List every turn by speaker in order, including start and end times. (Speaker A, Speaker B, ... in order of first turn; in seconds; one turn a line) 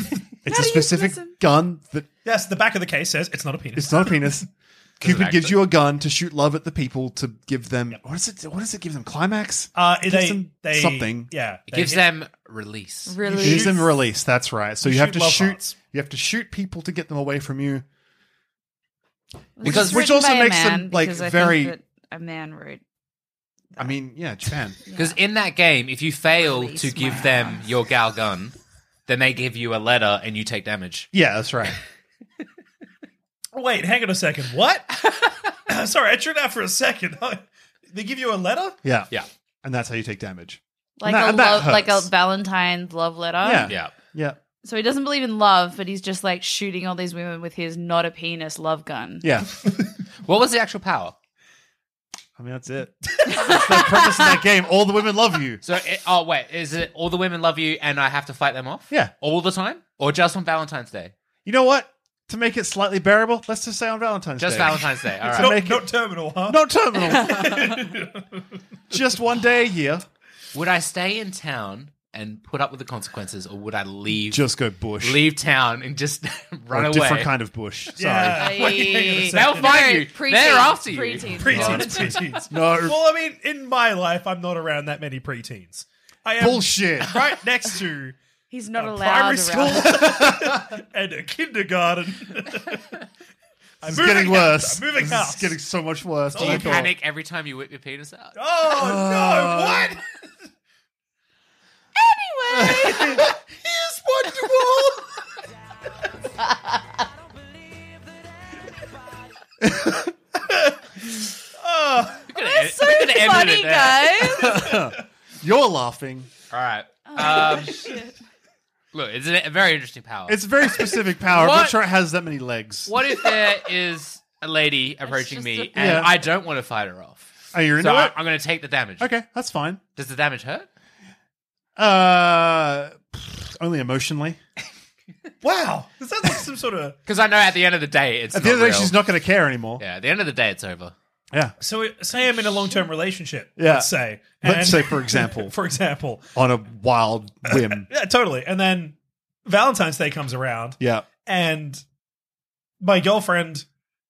Speaker A: 0.4-2.1
Speaker B: 0.5-1.3
Speaker C: 2.2-4.2
Speaker A: 3.7-4.5
Speaker D: 5.0-5.7
Speaker A: 5.0-11.3
Speaker C: 9.7-12.0
Speaker D: 11.7-13.1
Speaker B: 13.1-13.9
Speaker C: 13.2-13.9
Speaker A: 13.4-17.8
Speaker C: 14.8-15.7
Speaker B: 19.6-22.8
Speaker A: 19.6-21.7
Speaker D: 19.6-20.1
Speaker A: 23.8-24.8
Speaker B: 24.9-25.2
Speaker D: 24.9-28.5
Speaker B: 26.4-27.6
Speaker D: 29.1-31.1
Speaker A: 31.1-31.8
Speaker C: 33.5-38.8
Speaker A: 38.8-39.1
Speaker A: 39.6-42.1
Speaker B: 41.0-43.7
Speaker A: 43.4-44.4
Speaker D: 43.6-43.9
Speaker B: 44.6-49.2
Speaker A: 49.2-49.5
Speaker D: 50.2-51.1
Speaker A: 52.4-55.6
Speaker B: 53.3-54.2
Speaker D: 55.6-61.1
Speaker A: 61.4-67.9
Speaker D: 64.4-65.6
Speaker C: 65.3-68.4
Speaker B: 67.1-67.7
Speaker A: 68.9-70.0
Speaker D: 70.5-74.4
Speaker A: 74.3-75.2
Speaker D: 75.0-77.3
Speaker A: 76.7-78.5
Speaker C: 78.0-80.0
Speaker B: 78.3-82.2
Speaker D: 78.7-82.4
Speaker C: 81.3-88.2
Speaker A: 82.4-83.0
Speaker A: 86.4-87.2
Speaker B: 88.5-90.1
Speaker C: 88.7-92.9
Speaker A: 90.0-90.7
Speaker C: 93.8-95.6
Speaker A: 93.8-96.9
Speaker C: 96.3-96.9
Speaker D: 96.3-98.3
Speaker C: 98.3-100.1
Speaker A: 98.7-100.0
Speaker B: 102.0-103.2
Speaker C: 102.7-105.0
Speaker A: 109.6-110.1
Speaker C: 110.5-110.7
Speaker C: 111.6-112.3
Speaker D: 112.3-114.2
Speaker B: 112.3-114.6
Speaker A: 114.3-116.3
Speaker C: 114.5-114.9
Speaker D: 116.5-117.9
Speaker B: 117.0-118.2
Speaker D: 118.9-120.5
Speaker A: 120.3-122.9
Speaker D: 121.3-121.8
Speaker D: 122.8-129.1
Speaker B: 125.0-126.2
Speaker A: 125.8-126.1
Speaker A: 127.5-128.2
Speaker A: 129.0-129.8
Speaker D: 129.9-130.7
Speaker A: 131.8-134.4
Speaker C: 135.4-137.0
Speaker D: 137.1-139.0
Speaker A: 138.3-139.8
Speaker D: 139.8-140.9
Speaker C: 141.6-146.3
Speaker A: 143.6-145.5
Speaker A: 146.3-147.9
Speaker C: 147.5-151.8
Speaker A: 150.8-151.1
Speaker C: 152.8-153.7